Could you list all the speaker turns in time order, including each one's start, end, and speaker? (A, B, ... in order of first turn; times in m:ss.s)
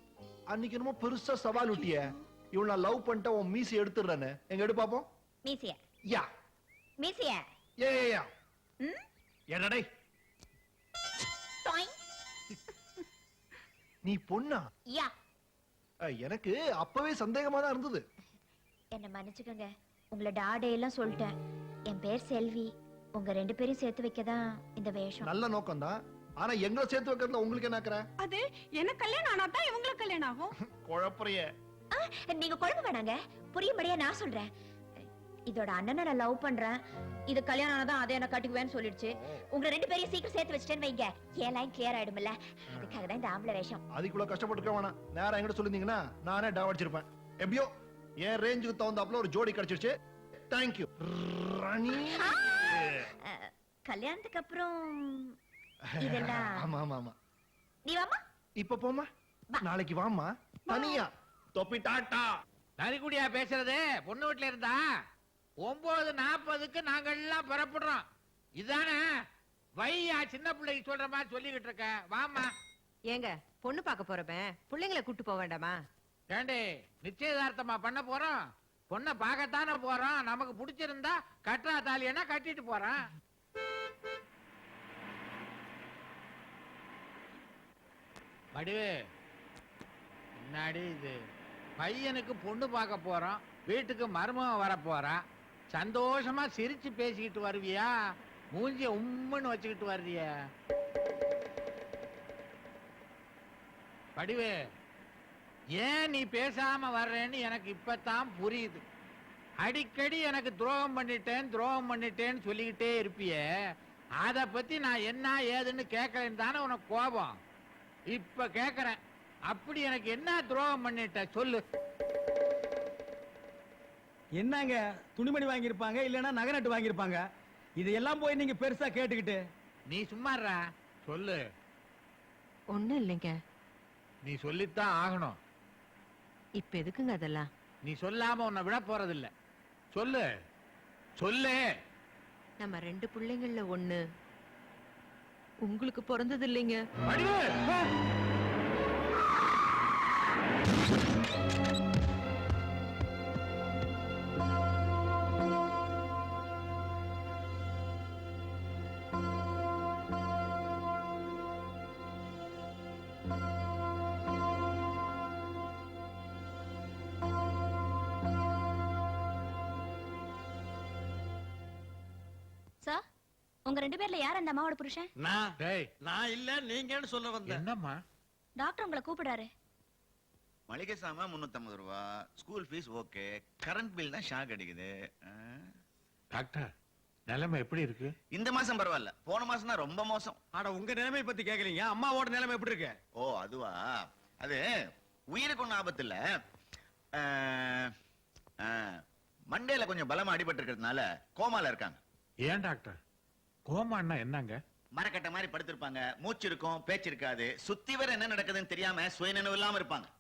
0:00.5-0:05.1 A
0:05.4-0:05.8 B
0:07.0-0:07.4 B
0:07.8-0:08.3 A
0:09.5-0:09.9 A
0:11.6-0:12.0 B
0:14.0-0:14.7 A
0:16.1-0:18.0 A
0:18.9-0:21.4 B
0:21.9-0:25.3 B
0:25.2-0:28.0 A
0:28.2-0:30.5 C
0:30.6-0:31.5 A
0:31.9-0:34.5 B
0:35.0-0:43.8 B
0:44.0-0:47.7 A
0:48.2-0:50.0 A
0:50.5-0:53.1 A
0:52.1-0:55.4 B
0:55.9-0:57.2 A
0:56.0-0:56.6 B
0:57.9-0:58.2 B
0:58.6-0:59.1 A
0:59.6-1:02.2 A
1:00.7-1:01.0 C
1:02.8-1:04.8 D
1:05.6-1:08.0 D
1:08.6-1:09.0 D
1:09.8-1:12.5 D
1:13.1-1:15.8 E
1:16.3-1:18.4 D
1:18.9-1:23.1 D
1:28.6-1:28.9 D
1:30.4-1:31.2 D
1:31.8-1:35.2 D
1:35.7-1:37.9 D
1:38.5-1:40.3 D
1:44.2-1:44.6 D
1:45.8-1:48.8 D
1:49.6-1:53.4 D
1:54.2-1:57.4 D
1:58.1-1:59.0 D
1:59.5-2:01.6 D
2:04.4-2:07.2 F
2:07.8-2:09.4 F
2:09.9-2:11.4 D
2:12.7-2:13.4 E
2:14.3-2:15.4 D
2:16.6-2:17.5 E
2:17.9-2:19.3 D
2:20.0-2:20.3 D
2:21.2-2:21.6 D
2:22.6-2:24.0 E
2:25.6-2:26.8 E
2:27.1-2:27.9 D
2:53.7-2:55.1 B
2:55.2-2:55.5 F
2:55.6-2:55.9 D
2:56.0-2:57.6 F
2:57.5-2:58.0 D
2:58.6-2:59.5 B
3:00.7-3:05.7 G
3:06.4-3:06.7 D
3:07.3-3:08.1 D
3:08.3-3:10.4 G
3:10.6-3:12.9 F
3:13.2-3:14.6 G
3:15.3-3:16.2 G
3:17.2-3:17.9 G
3:18.6-3:19.0 G
3:19.5-3:22.0 G
3:22.4-3:23.0 D
3:23.7-3:24.6 D
3:25.0-3:30.1 G